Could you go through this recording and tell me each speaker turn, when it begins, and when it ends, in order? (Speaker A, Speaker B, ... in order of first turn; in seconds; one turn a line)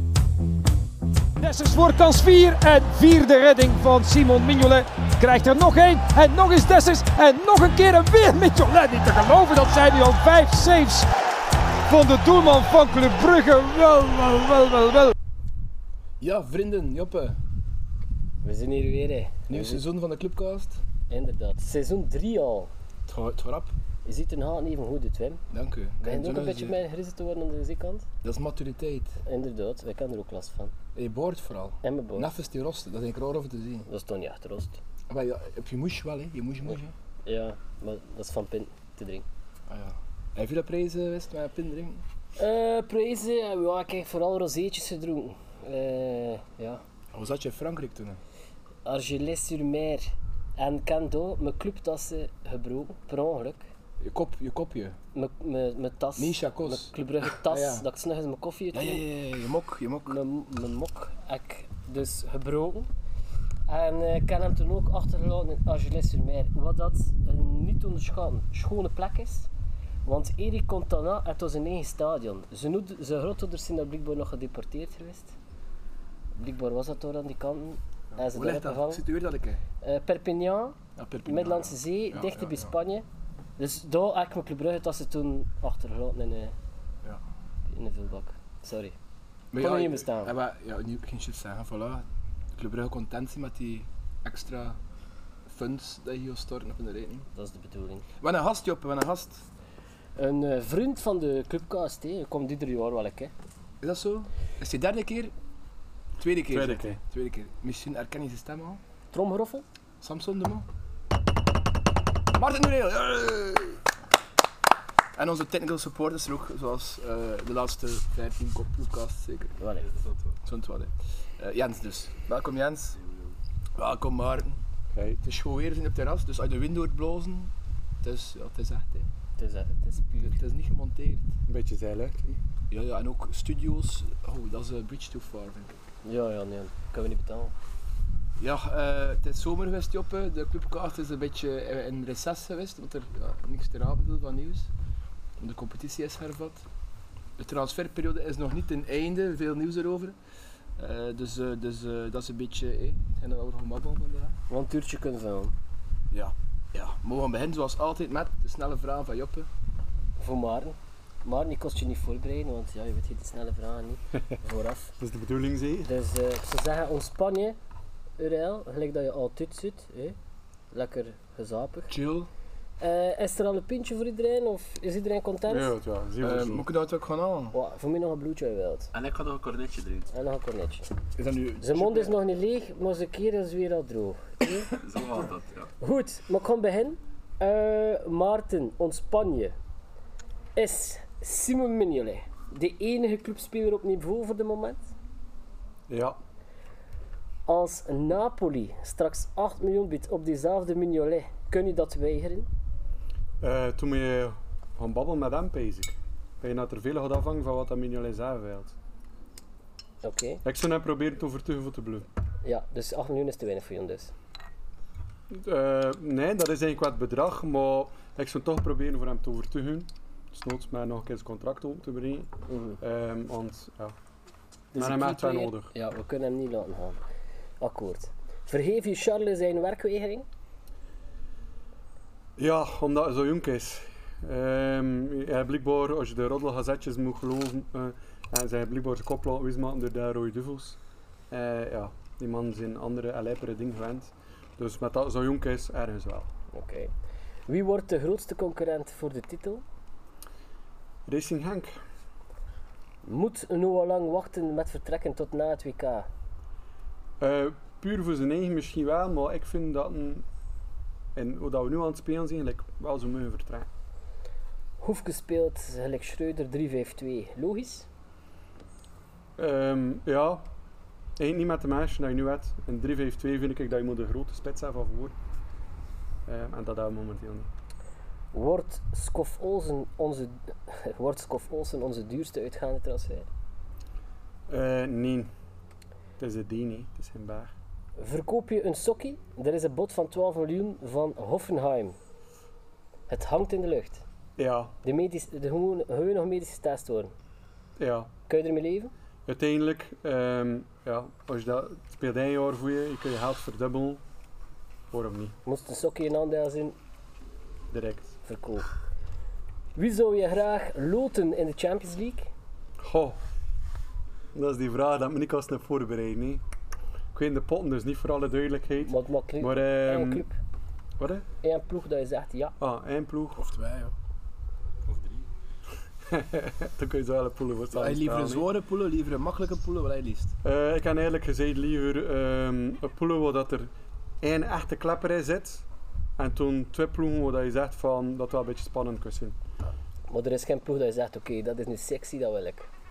Speaker A: 1.4-11.1
Speaker A: 11.9-15.1
Speaker B: 16.2-17.4
Speaker C: 18.4-19.8
Speaker B: 19.5-20.8
Speaker C: 21.1-22.7
Speaker B: 23.1-23.7
Speaker C: 24.0-25.4
Speaker B: 25.5-26.8
Speaker C: 26.0-28.1
Speaker B: 28.2-29.2
Speaker C: 29.2-30.7
Speaker B: 30.9-33.9
Speaker C: 31.8-32.3
Speaker C: 33.9-34.8
Speaker B: 35.1-36.9
Speaker C: 37.2-39.2
Speaker B: 39.7-42.0
Speaker C: 42.4-46.8
Speaker B: 47.1-48.2
Speaker C: 48.8-53.7
Speaker B: 54.0-55.0
Speaker C: 55.1-59.0
Speaker B: 56.2-57.9
Speaker B: 58.7-60.2
Speaker C: 60.1-62.9
Speaker C: 63.7-69.5
Speaker C: 70.0-75.3
Speaker C: 76.3-79.0
Speaker B: 78.1-79.6
Speaker C: 79.8-83.0
Speaker B: 81.0-82.7
Speaker C: 83.6-86.5
Speaker C: 87.7-88.9
Speaker B: 89.5-92.0
Speaker C: 89.6-90.3
Speaker B: 92.5-94.8
Speaker B: 95.5-97.2
Speaker C: 97.3-98.0
Speaker B: 98.2-99.4
Speaker C: 100.2-103.3
Speaker B: 103.8-105.3
Speaker B: 106.2-108.8
Speaker D: 106.5-107.0
Speaker C: 109.1-109.7
Speaker B: 110.0-110.7
Speaker B: 112.3-113.8
Speaker B: 115.1-119.6
Speaker C: 119.6-119.9
Speaker E: 119.8-120.3
Speaker B: 120.4-123.0
Speaker B: 123.8-124.6
Speaker D: 124.9-125.2
Speaker B: 125.2-129.1
Speaker C: 129.4-130.4
Speaker B: 130.2-131.3
Speaker D: 131.5-132.2
Speaker B: 132.7-135.8
Speaker C: 136.0-137.5
Speaker B: 138.4-144.7
Speaker B: 145.4-146.7
Speaker B: 147.4-150.2
Speaker B: 150.8-154.4
Speaker C: 154.5-155.5
Speaker B: 156.1-159.5
Speaker C: 160.2-164.9
Speaker D: 165.0-165.9
Speaker C: 165.8-167.6
Speaker C: 168.2-170.2
Speaker C: 170.7-171.9
Speaker B: 171.9-172.3
Speaker C: 172.8-175.7
Speaker D: 175.5-176.7
Speaker B: 176.2-177.6
Speaker C: 177.5-178.9
Speaker E: 178.9-180.1
Speaker C: 180.1-180.9
Speaker B: 181.2-182.1
Speaker C: 181.6-184.7
Speaker E: 184.8-185.7
Speaker C: 185.8-189.6
Speaker C: 190.6-194.9
Speaker D: 195.9-196.2
Speaker C: 197.5-202.5
Speaker D: 203.4-208.8
Speaker C: 210.0-210.4
Speaker D: 210.4-212.1
Speaker C: 212.4-214.1
Speaker D: 215.3-223.9
Speaker C: 222.5-222.8
Speaker D: 224.7-225.7
Speaker C: 224.8-227.0
Speaker C: 227.6-230.2
Speaker D: 232.4-240.8
Speaker D: 241.3-246.3
Speaker C: 246.5-246.9
Speaker C: 247.5-249.6
Speaker D: 251.1-251.7
Speaker C: 253.0-256.1
Speaker D: 257.2-260.2
Speaker D: 261.1-263.7
Speaker C: 264.8-267.9
Speaker D: 269.4-270.5
Speaker D: 271.2-275.1
Speaker D: 276.2-277.5
Speaker C: 278.3-283.3
Speaker D: 284.5-285.3
Speaker D: 286.2-287.5
Speaker C: 288.0-292.0
Speaker C: 293.1-294.1
Speaker D: 294.4-294.7
Speaker C: 294.8-297.1
Speaker D: 297.8-298.1
Speaker C: 298.3-298.9
Speaker D: 299.3-304.0
Speaker D: 304.9-305.4
Speaker C: 305.4-306.7
Speaker D: 307.7-308.2
Speaker C: 308.2-308.7
Speaker C: 309.8-312.3
Speaker D: 312.8-313.2
Speaker D: 314.3-316.4
Speaker D: 317.1-320.2
Speaker C: 318.8-320.4
Speaker D: 321.0-321.2
Speaker C: 321.4-322.5
Speaker D: 322.6-323.5
Speaker B: 323.4-323.9
Speaker E: 324.9-325.2
Speaker D: 326.1-328.5
Speaker B: 327.7-330.3
Speaker D: 330.4-333.7
Speaker D: 334.2-335.6
Speaker D: 336.2-339.4
Speaker C: 340.1-342.7